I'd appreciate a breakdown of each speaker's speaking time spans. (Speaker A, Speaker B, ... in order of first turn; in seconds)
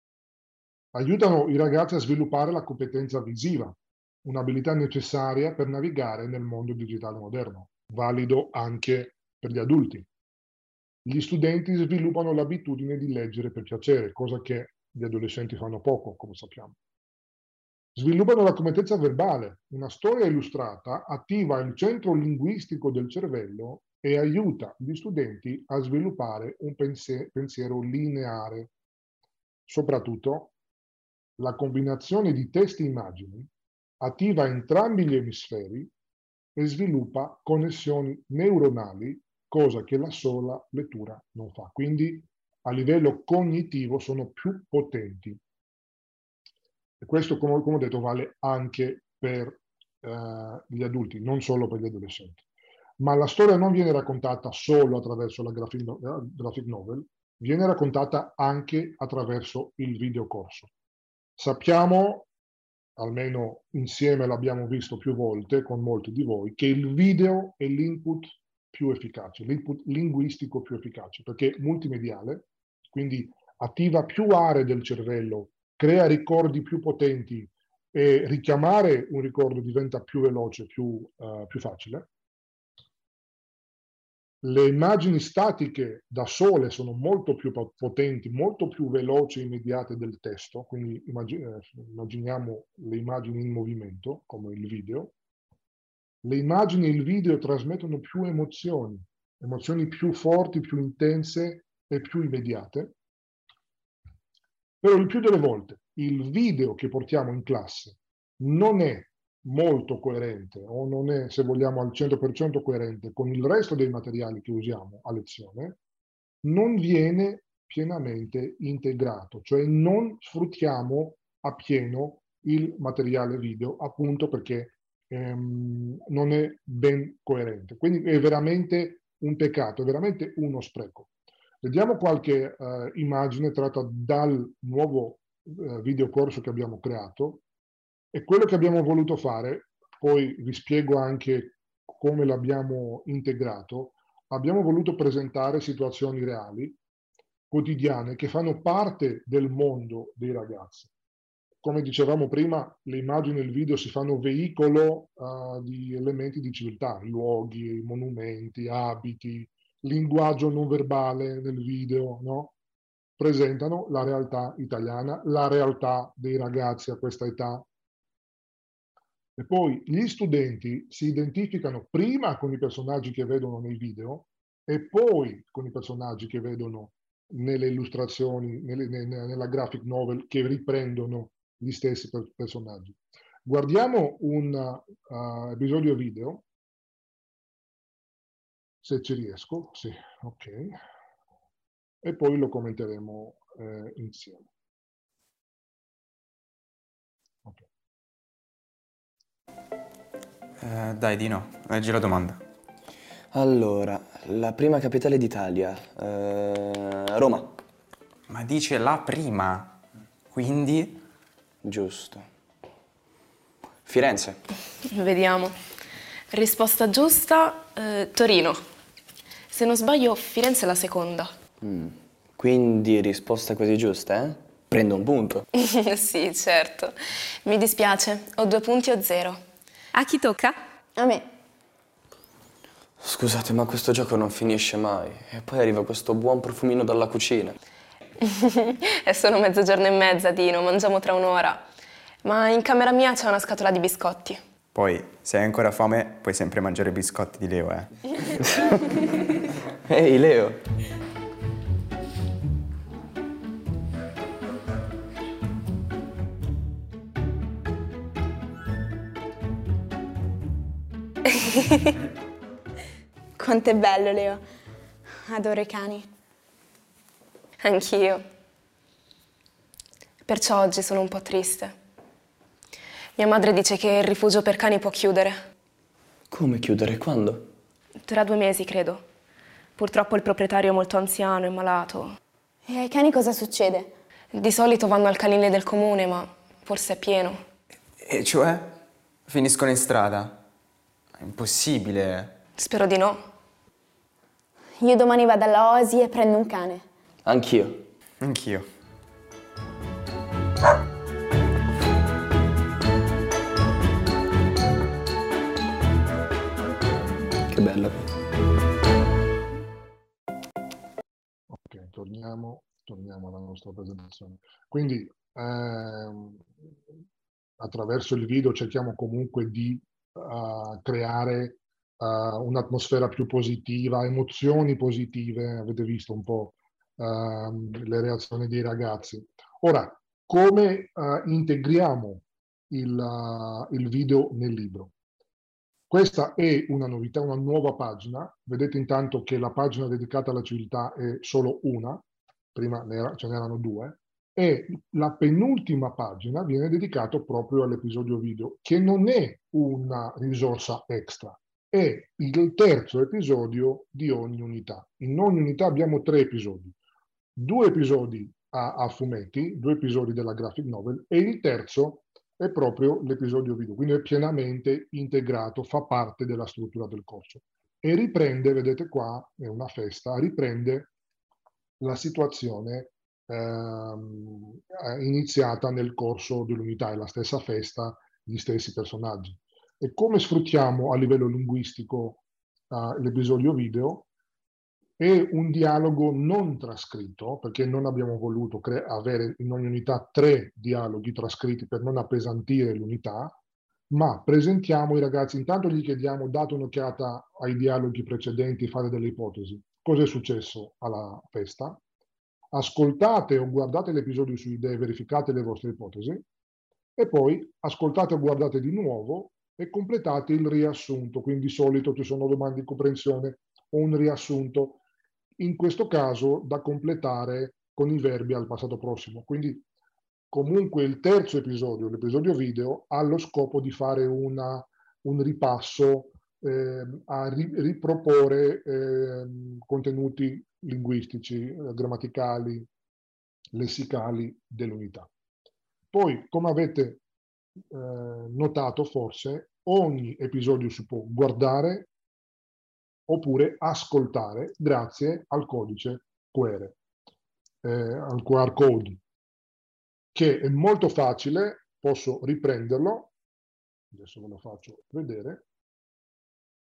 Speaker A: 0.9-10.1, 11.1-16.8, 18.0-28.7, 29.7-30.5, 31.4-33.5, 34.0-35.9, 36.6-45.4, 47.0-52.4, 53.0-60.7, 61.4-62.3, 63.0-82.1, 84.4-95.1, 96.2-102.9, 104.8-115.8, 116.4-131.1, 131.6-137.4, 138.1-146.8, 147.5-150.9, 151.6-162.5, 163.2-167.7, 169.4-186.4, 188.8-190.8, 192.0-194.5, 311.5-316.5, 317.6-334.9, 335.9-342.0, 342.5-356.8, 357.4-370.9, 371.8-384.1, 385.0-393.4, 393.9-401.8, 402.5-406.2, 407.0-414.8, 415.4-419.6, 420.3-432.7, 433.5-435.1, 435.9-437.0, 437.7-441.9, 443.1-446.8, 447.6-449.0, 450.1-453.1, 453.9-455.4
Speaker B: 200.6-202.4, 208.3-209.8, 210.3-211.0, 244.7-248.0, 288.0-290.4, 291.2-292.4, 298.2-298.7
Speaker C: 203.3-207.5, 211.6-212.3, 213.9-214.4, 221.6-225.4, 233.0-237.6, 249.9-250.6, 276.3-277.5, 297.2-297.9, 307.5-308.0
Speaker D: 214.8-215.6, 216.3-218.6, 219.5-221.3, 225.6-229.4, 229.9-230.6, 238.2-241.6, 242.2-244.4, 267.6-268.2, 270.3-271.7, 273.2-275.4, 278.0-279.0, 279.8-282.2, 284.3-287.4, 292.6-293.2
Speaker E: 231.0-231.3, 263.4-264.4, 265.3-266.1, 282.7-283.9, 294.8-296.9